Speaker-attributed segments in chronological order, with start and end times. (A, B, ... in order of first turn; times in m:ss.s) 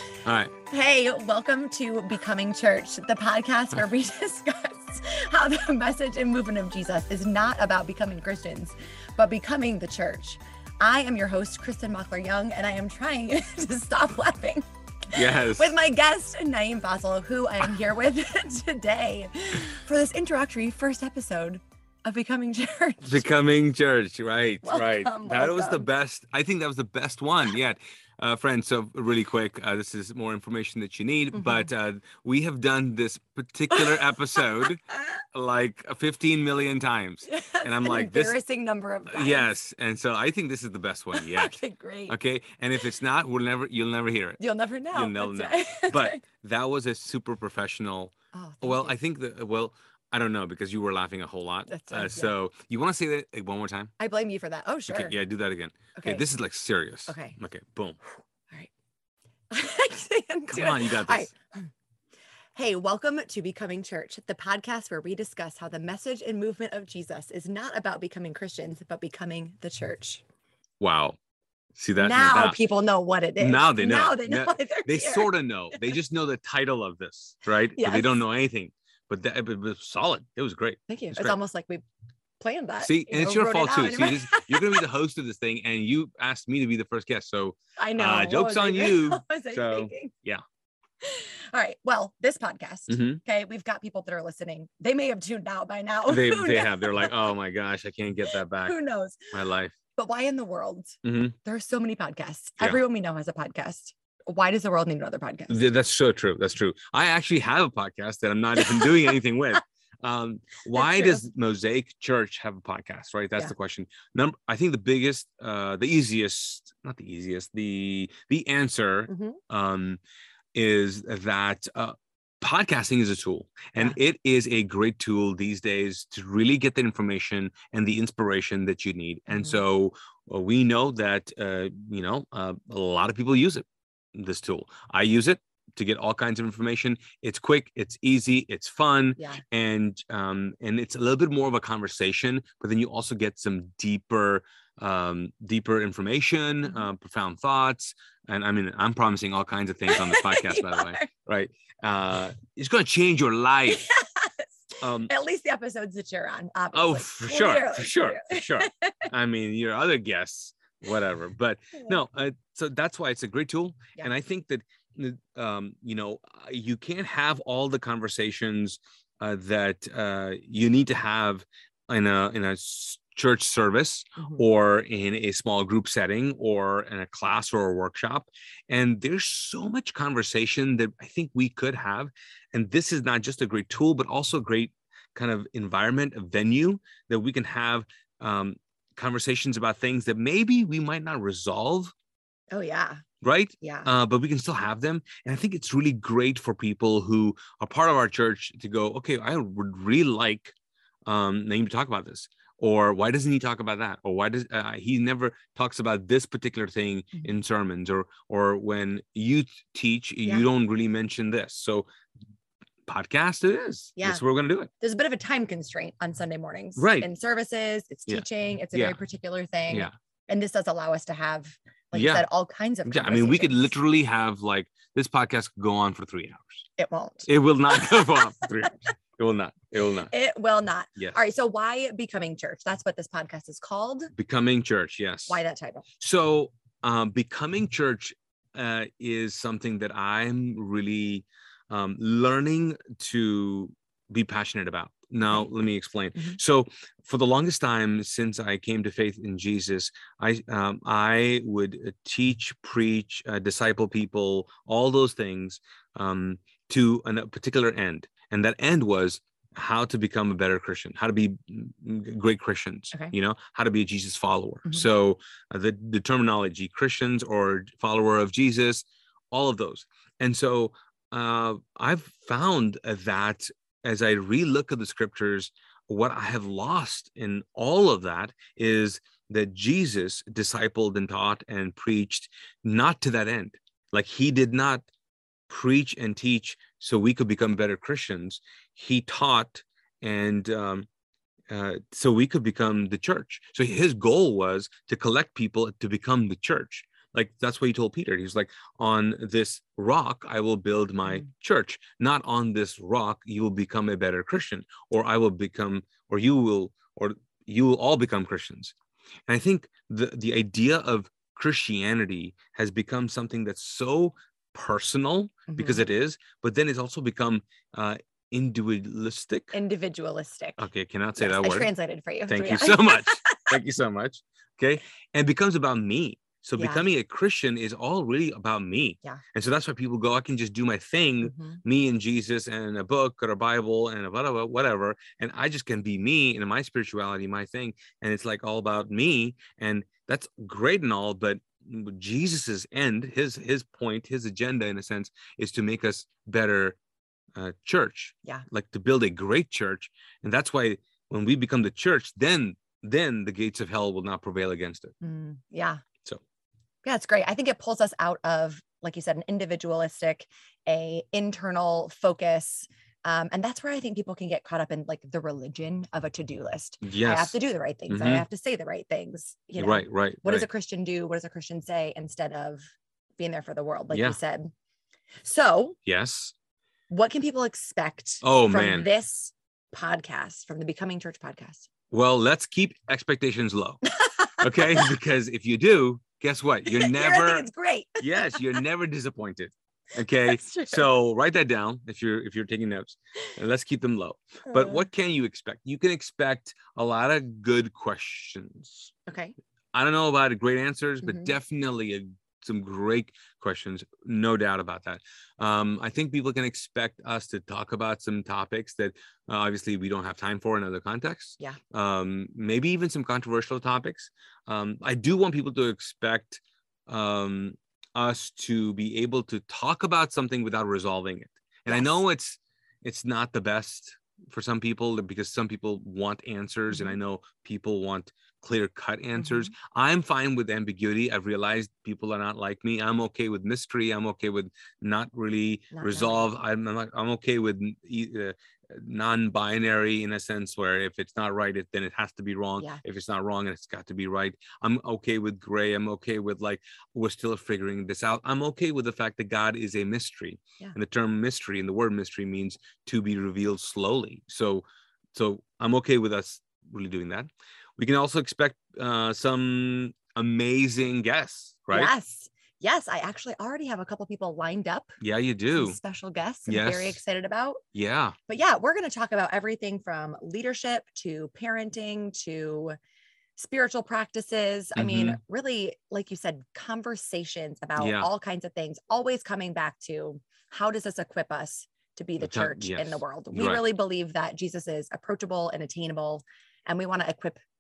0:00.2-0:00.5 A
0:00.7-0:23.2 B
0:15.1-0:15.8 A
0:23.0-0:34.8 A
0:24.6-0:25.9 B
0:31.3-0:31.7 B
0:33.7-0:35.0 B
0:35.3-0:38.4 A
0:37.3-0:39.5 B
0:39.1-0:44.4 A
0:41.1-0:42.2 B
0:44.4-0:46.2 B
0:44.9-0:53.9 A
0:48.3-0:49.0 B
0:51.7-0:52.3 B
0:54.0-0:55.2 B
0:54.9-0:58.0 A
0:56.0-0:56.2 B
0:57.1-0:57.4 B
0:59.5-1:01.7 B
1:00.5-1:01.3 A
1:02.6-1:10.2 B
1:10.8-1:11.2 A
1:11.8-1:12.6 A
1:12.0-1:15.9 B
1:13.4-1:21.4 A
1:17.8-1:18.2 B
1:20.9-1:21.8 B
1:22.4-1:24.8 B
1:22.8-1:30.4 A
1:27.8-1:30.1 B
1:31.0-1:37.3 B
1:32.9-1:33.2 A
1:36.1-1:38.8 A
1:38.3-1:39.2 B
1:39.3-1:39.7 A
1:40.0-1:45.6 B
1:41.0-1:41.4 A
1:45.5-2:00.0 A
1:48.6-1:49.2 B
1:50.7-1:51.2 B
1:59.1-1:59.4 B
2:00.5-2:33.8 A
2:09.3-2:09.6 B
2:29.9-2:31.1 B
2:33.7-2:39.1 B
2:34.8-2:35.1 A
2:36.7-3:11.9 A
2:54.2-2:54.4 B
3:12.5-3:13.0 B
3:13.2-3:20.5 A
3:13.6-3:13.9 B
3:21.1-3:31.9 A
3:32.9-3:34.7 A
3:34.0-3:34.2 B
3:34.8-3:43.7 B
3:36.8-3:37.1 A
3:38.1-3:39.0 A
3:39.7-3:39.9 A
3:41.9-3:42.3 A
3:42.8-3:46.7 A
3:46.8-3:48.7 B
3:47.3-3:50.1 A
3:50.1-3:54.1 B
3:54.2-3:55.4 A
3:55.3-3:55.9 B
3:56.0-4:44.9 A
4:45.5-4:50.9 A
4:51.5-5:08.7 A
5:09.3-5:19.6 A
5:15.5-5:15.8 B
5:19.5-5:20.6 B
5:20.6-5:21.7 A
5:21.2-5:23.6 B
5:22.3-5:46.8 A
5:26.6-5:26.8 B
5:31.2-5:31.6 B
5:47.4-5:54.9 A
5:55.0-5:55.8 B
5:56.8-6:12.6 B
6:06.8-6:07.4 A
6:07.9-6:08.2 A
6:09.6-6:10.5 A
6:13.2-6:14.5 B
6:13.9-6:14.2 A
6:15.2-6:15.8 B
6:15.8-6:16.3 A
6:16.9-6:21.7 B
6:18.2-6:18.9 A
6:21.9-6:23.8 A
6:23.9-6:24.9 B
6:24.4-6:27.5 A
6:26.7-6:28.6 B
6:28.0-6:38.9 A
6:30.1-6:30.9 B
6:34.5-6:34.8 B
6:39.1-6:39.4 B
6:39.7-7:41.9 A
6:41.0-6:41.3 B
7:01.7-7:02.0 B
7:06.7-7:07.0 B
7:09.2-7:09.5 B
7:15.7-7:16.3 B
7:41.7-7:45.0 B
7:45.0-7:45.8 A
7:45.5-7:47.6 B
7:46.5-7:47.0 A
7:47.7-7:48.2 A
7:48.3-7:52.8 B
7:53.4-8:07.4 B
7:54.8-7:55.2 A
7:57.8-7:58.1 A
8:02.2-8:03.6 A